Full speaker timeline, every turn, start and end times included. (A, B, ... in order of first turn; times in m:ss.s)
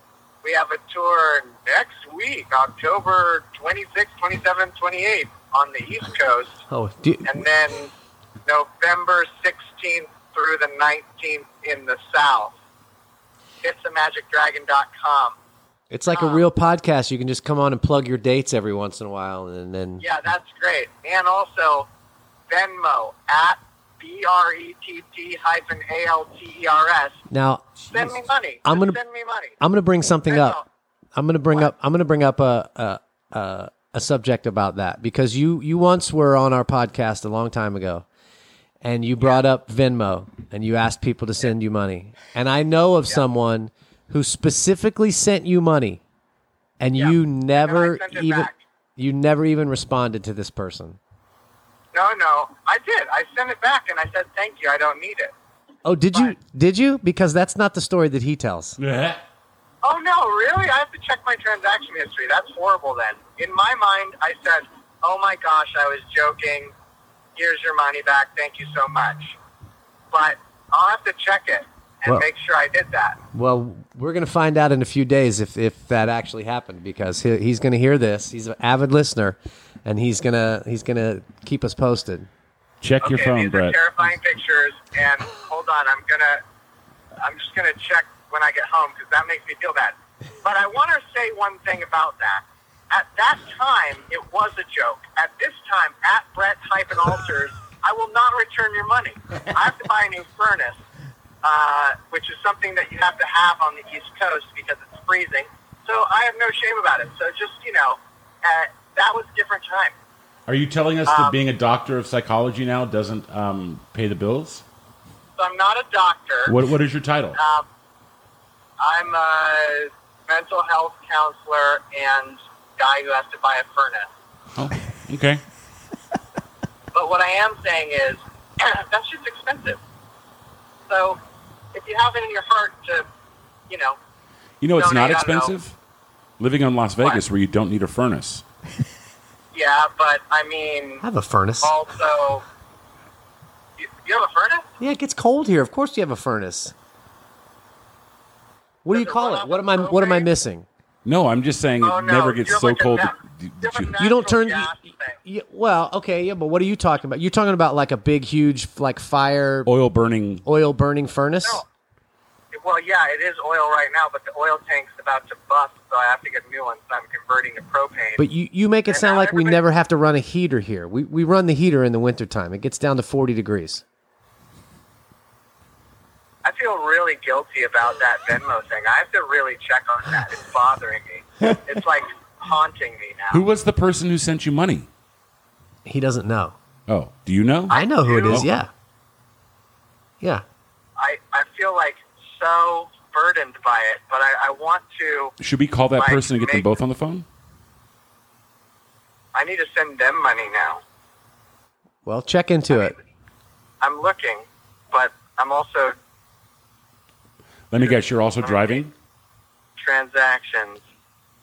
0:00.4-0:06.6 A
0:06.7-0:07.5 B
0:07.2-0:07.9 A
0:08.4-0:12.6 A
0:13.6-0:15.3 A
0:15.9-0:20.0 B
0:16.1-0:16.4 A
0:20.0-0:21.9 A
0:22.5-0:27.2 A
0:27.3-0:29.0 B
0:27.9-0:29.5 A
0:29.6-0:30.6 B
0:30.3-0:30.6 A
0:31.1-0:38.0 B
0:38.8-0:46.0 B
0:46.8-0:51.0 B
0:46.9-0:48.6 A
0:51.9-0:55.3 A
0:55.8-0:58.8 B
0:58.8-0:59.2 C
0:59.8-1:06.7 A
1:07.4-1:09.4 A
1:10.1-1:13.2 A
1:13.3-1:22.3 B
1:22.8-1:23.8 C
1:23.0-1:26.4 A
1:27.2-1:40.8 A
1:41.4-1:49.9 A
1:50.5-1:54.6 C
1:51.0-1:51.4 A
1:55.4-1:56.6 A
1:56.5-1:57.4 C
1:57.3-1:57.6 A
1:58.8-2:04.1 A
2:04.5-2:05.4 C
2:06.9-2:09.8 A
2:10.9-2:11.2 A
2:11.7-2:13.0 A
2:13.7-2:14.0 A
2:14.6-2:15.7 C
2:14.8-2:15.5 A
2:16.4-2:18.4 C
2:19.5-2:21.0 A
2:21.0-2:21.7 B
2:21.6-2:22.4 A
2:23.8-2:24.6 A
2:24.8-2:26.7 B
2:28.8-2:30.6 B
2:28.9-2:30.3 A
2:31.0-2:33.9 C
2:31.8-2:35.2 A
2:34.0-2:34.7 B
2:35.2-2:39.7 B
2:39.6-2:40.4 C
2:40.4-2:41.6 B
2:42.5-2:48.2 A
2:48.2-2:53.8 B
2:48.9-2:49.6 A
2:56.4-3:03.4 A
3:03.3-3:04.9 C
3:05.8-3:06.6 B
3:06.9-3:07.7 C
3:07.7-3:08.4 A
3:07.7-3:08.7 B
3:11.0-3:15.3 A
3:15.4-3:17.2 C
3:15.9-3:16.7 A
3:19.3-3:20.8 A
3:22.0-3:22.9 B
3:22.7-3:23.0 A
3:23.8-3:25.9 A
3:27.7-3:28.9 C
3:27.8-3:28.8 A
3:29.8-3:30.8 A